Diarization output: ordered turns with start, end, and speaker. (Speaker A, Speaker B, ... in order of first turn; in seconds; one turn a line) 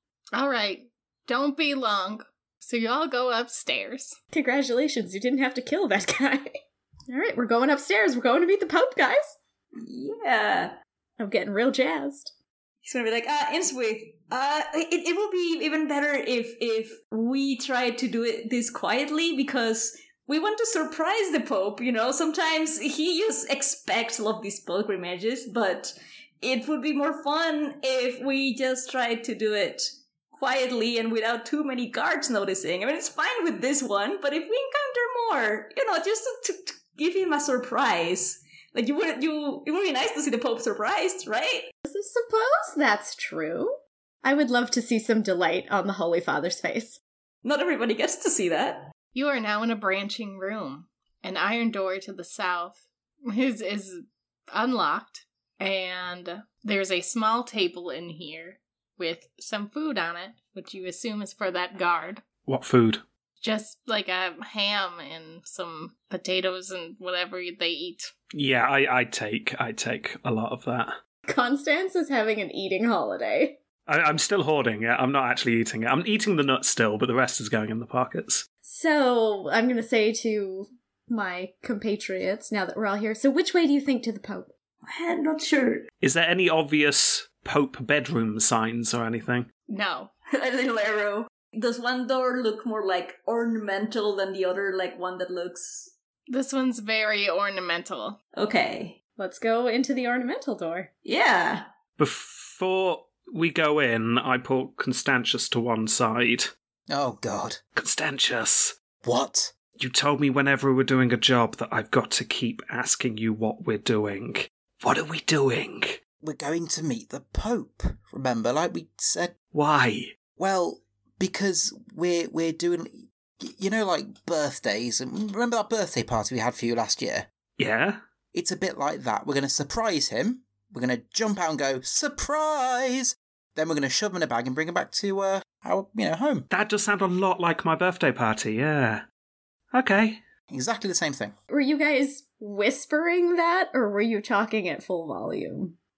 Speaker A: 0.3-4.2
Speaker B: 4.3-6.6
Speaker B: 7.1-9.3
Speaker C: 9.8-10.8
Speaker B: 11.2-12.3
Speaker C: 12.8-41.7
Speaker B: 41.9-47.0
Speaker C: 47.4-48.9
Speaker A: 49.1-62.2
Speaker D: 62.5-63.0
Speaker A: 63.4-68.1
Speaker D: 68.3-71.0
Speaker B: 71.3-73.6
Speaker D: 73.9-78.5
Speaker B: 78.6-84.5
Speaker C: 84.8-85.9
Speaker D: 86.0-89.5
Speaker A: 89.7-90.1
Speaker C: 90.3-95.9
Speaker A: 96.3-98.2
Speaker C: 98.4-99.0
Speaker B: 99.2-100.9
Speaker C: 101.0-101.7
Speaker D: 102.0-106.5
Speaker E: 106.9-107.6
Speaker D: 107.8-108.8
Speaker E: 109.0-109.5
Speaker D: 109.7-116.0
Speaker E: 116.2-119.3
Speaker D: 119.5-120.2
Speaker E: 120.4-127.3
Speaker D: 127.6-128.0
Speaker E: 128.3-136.5
Speaker D: 136.5-139.0
Speaker D: 139.7-140.2
Speaker E: 140.5-141.3
Speaker B: 141.5-145.8